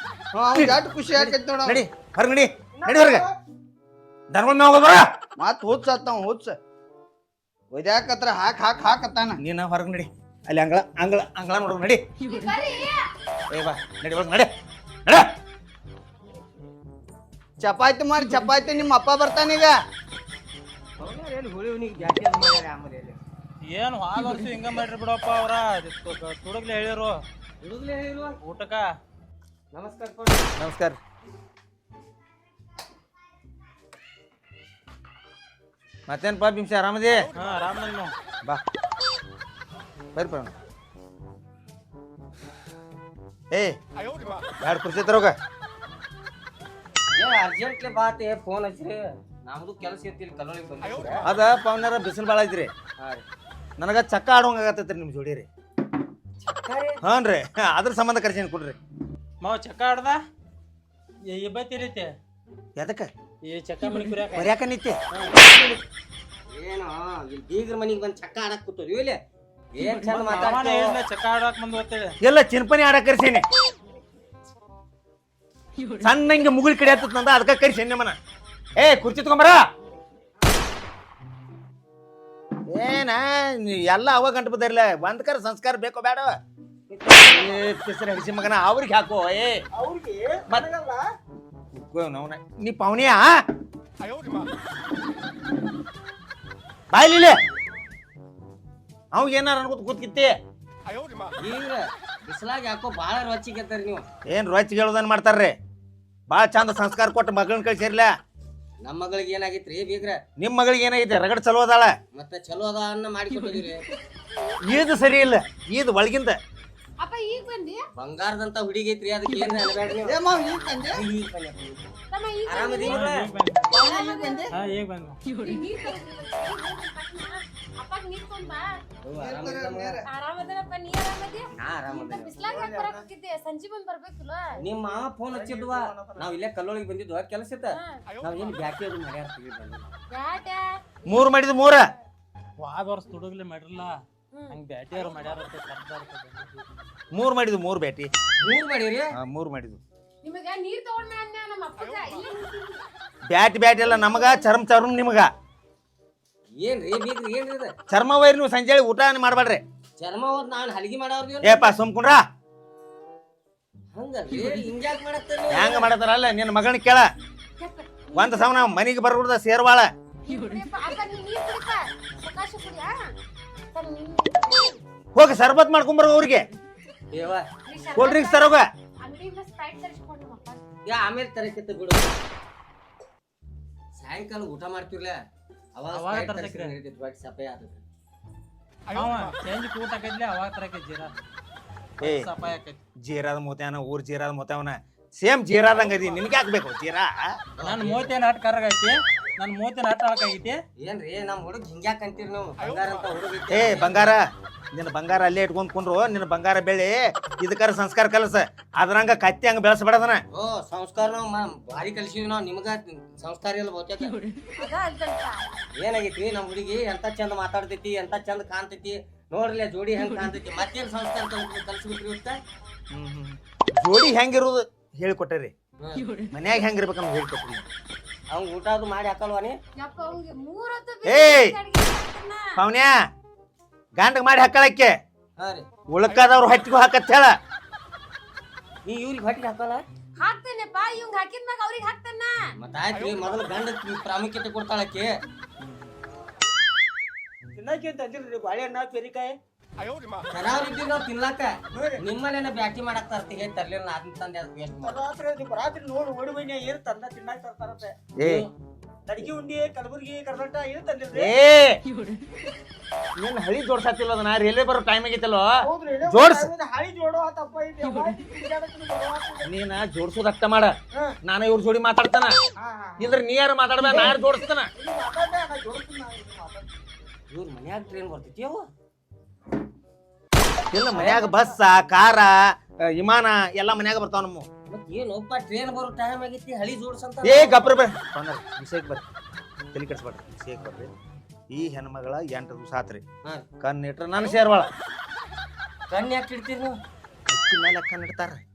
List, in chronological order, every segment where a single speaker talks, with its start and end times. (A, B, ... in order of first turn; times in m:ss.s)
0:00.3-0:01.8 A
0:00.6-0:03.2 B
0:02.8-0:03.4 C
0:04.3-0:05.1 B
0:05.4-0:06.6 A
0:07.7-0:09.4 A
0:09.4-0:12.0 B
0:12.2-0:13.1 D
0:13.5-0:14.5 B
0:15.1-0:15.3 B
0:17.6-0:19.8 A
0:21.0-0:23.2 E
0:23.6-0:27.2 F
0:27.6-0:28.4 E
0:28.4-0:28.9 F
0:29.7-0:30.5 E
0:30.6-0:31.0 B
0:36.1-0:37.3 B
0:37.4-0:38.1 F
0:40.2-0:40.5 B
0:43.5-0:43.8 B
0:44.6-0:45.4 B
0:47.2-0:51.3 E
0:51.2-0:52.7 B
0:53.0-0:53.2 E
0:53.8-0:55.5 B
0:56.4-0:57.0 E
0:57.0-0:58.8 B
0:59.4-1:00.2 F
1:01.3-1:02.1 F
1:02.8-1:03.1 B
1:03.4-1:04.6 F
1:04.3-1:05.8 B
1:06.5-1:09.2 E
1:09.7-1:11.0 E
1:09.8-1:12.2 F
1:12.2-1:13.4 B
1:16.0-1:18.2 B
1:18.8-1:19.7 B
1:22.7-1:26.4 B
1:26.9-1:27.7 E
1:27.1-1:29.6 B
1:29.7-1:31.0 C
1:31.7-1:33.4 B
1:36.9-1:37.4 B
1:39.1-1:40.4 B
1:41.4-1:44.1 E
1:44.3-1:45.6 B
1:46.3-1:48.1 B
1:48.8-1:50.2 E
1:50.4-1:52.0 B
1:52.1-1:53.8 E
1:54.2-1:54.9 D
1:54.6-1:56.4 B
1:57.0-1:57.8 D
1:58.0-2:00.2 E
2:00.0-2:01.0 A
2:00.9-2:01.9 E
2:02.1-2:03.0 D
2:02.5-2:03.3 E
2:02.8-2:03.7 F
2:03.7-2:04.5 A
2:03.7-2:04.5 D
2:04.5-2:05.2 F
2:05.4-2:08.8 D
2:09.0-2:10.0 E
2:09.1-2:10.1 A
2:10.0-2:14.6 D
2:11.6-2:12.4 E
2:12.4-2:13.0 C
2:14.6-2:20.0 E
2:15.3-2:16.3 C
2:17.7-2:18.0 D
2:20.1-2:20.8 D
2:21.1-2:21.8 B
2:22.6-2:24.0 F
2:24.5-2:26.6 F
2:27.1-2:28.1 B
2:28.4-2:29.2 E
2:29.2-2:29.8 B
2:30.2-2:32.8 D
2:33.3-2:35.3 B
2:33.8-2:34.5 D
2:36.6-2:37.7 E
2:37.9-2:39.6 B
2:40.0-2:41.8 E
2:41.4-2:42.2 B
2:44.0-2:45.9 E
2:45.5-2:47.1 B
2:47.6-2:48.8 D
2:48.1-2:49.9 B
2:50.3-2:53.0 D
2:53.7-2:54.8 D
2:55.2-2:56.5 B
2:57.1-2:57.5 E
2:57.6-3:00.6 D
2:58.0-2:58.7 B
3:00.9-3:02.2 E
3:04.0-3:05.2 E
3:05.8-3:07.8 E
3:05.9-3:06.8 F
3:08.9-3:11.1 F
3:12.0-3:12.8 F
3:12.0-3:12.3 B
3:13.0-3:17.4 B
3:17.6-3:18.1 E
3:17.6-3:20.6 F
3:20.8-3:24.2 E
3:23.5-3:30.2 B
3:30.3-3:34.2 E
3:34.6-3:35.4 D
3:35.8-3:42.4 E
3:42.9-3:45.5 B
3:45.8-3:46.0 E
3:46.3-3:47.7 B
3:48.3-3:49.6 E
3:49.8-3:52.6 D
3:51.1-3:51.6 B
3:52.6-3:53.1 B
3:54.0-3:55.0 B
3:55.4-3:55.6 E
3:55.9-3:57.4 B
3:58.8-3:59.8 E
4:00.2-4:02.4 D
4:02.6-4:05.2 E
4:05.6-4:05.9 B
4:07.6-4:09.4 C
4:10.3-4:15.0 E
4:11.7-4:12.0 C
4:14.8-4:18.0 C
4:18.2-4:18.5 B
4:19.1-4:21.3 C
4:21.1-4:21.8 B
4:23.2-4:26.5 B
4:25.6-4:29.5 C
4:29.4-4:32.4 B
4:32.6-4:33.2 C
4:33.0-4:34.7 B
4:33.9-4:34.2 C
4:34.8-4:36.8 C
4:37.3-4:38.7 E
4:40.7-4:44.5 B
4:40.9-4:41.2 E
4:41.0-4:41.2 C
4:44.7-4:47.8 E
4:47.2-4:49.0 B
4:49.7-4:50.9 B
4:51.5-4:53.0 B
4:53.6-4:54.7 B
4:55.9-4:56.8 E
4:57.3-4:58.4 B